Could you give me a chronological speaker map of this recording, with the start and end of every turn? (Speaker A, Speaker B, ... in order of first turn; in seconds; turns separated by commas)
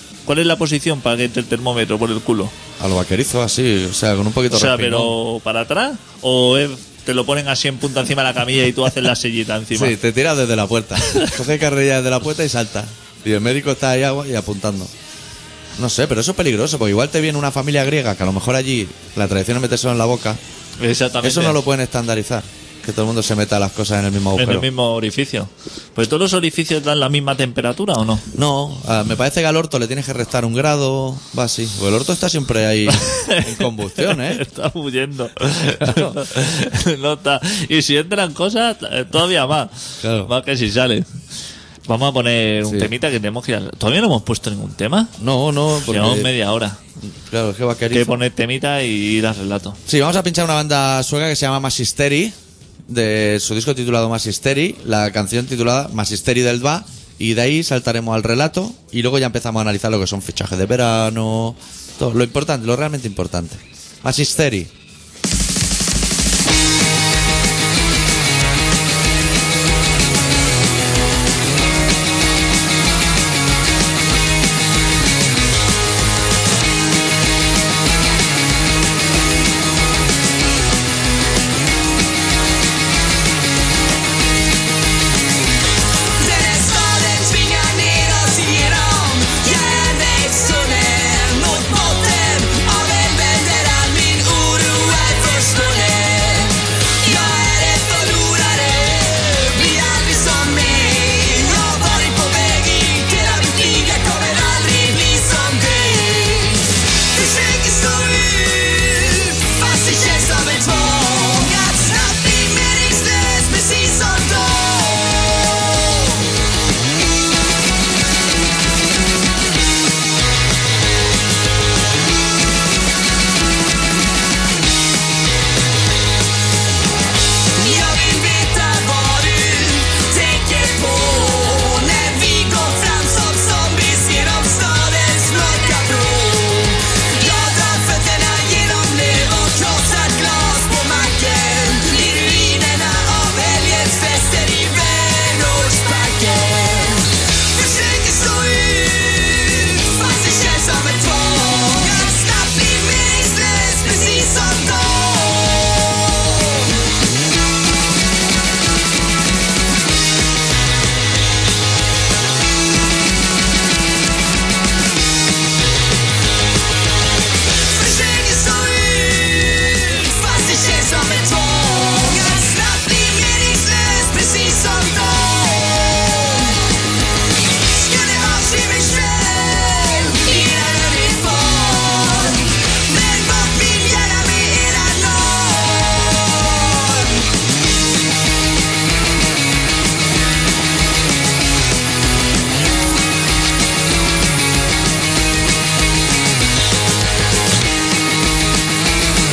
Speaker A: 0.3-2.5, Speaker B: 2.8-5.1, Speaker A: 4.5-10.0, Speaker B: 9.7-14.9, Speaker A: 11.1-11.3, Speaker B: 15.8-20.4, Speaker A: 20.8-21.6, Speaker B: 21.2-24.7, Speaker A: 24.4-28.2, Speaker B: 28.4-34.4, Speaker A: 32.9-41.1, Speaker B: 35.8-36.2, Speaker B: 40.0-40.3, Speaker A: 41.9-45.1, Speaker B: 42.6-42.9, Speaker B: 45.2-46.3, Speaker A: 45.8-46.8, Speaker B: 47.0-48.2, Speaker A: 47.9-49.8, Speaker B: 49.9-52.4, Speaker B: 52.9-64.7, Speaker C: 86.2-116.3, Speaker C: 127.6-156.8, Speaker C: 167.7-176.7, Speaker C: 177.6-187.3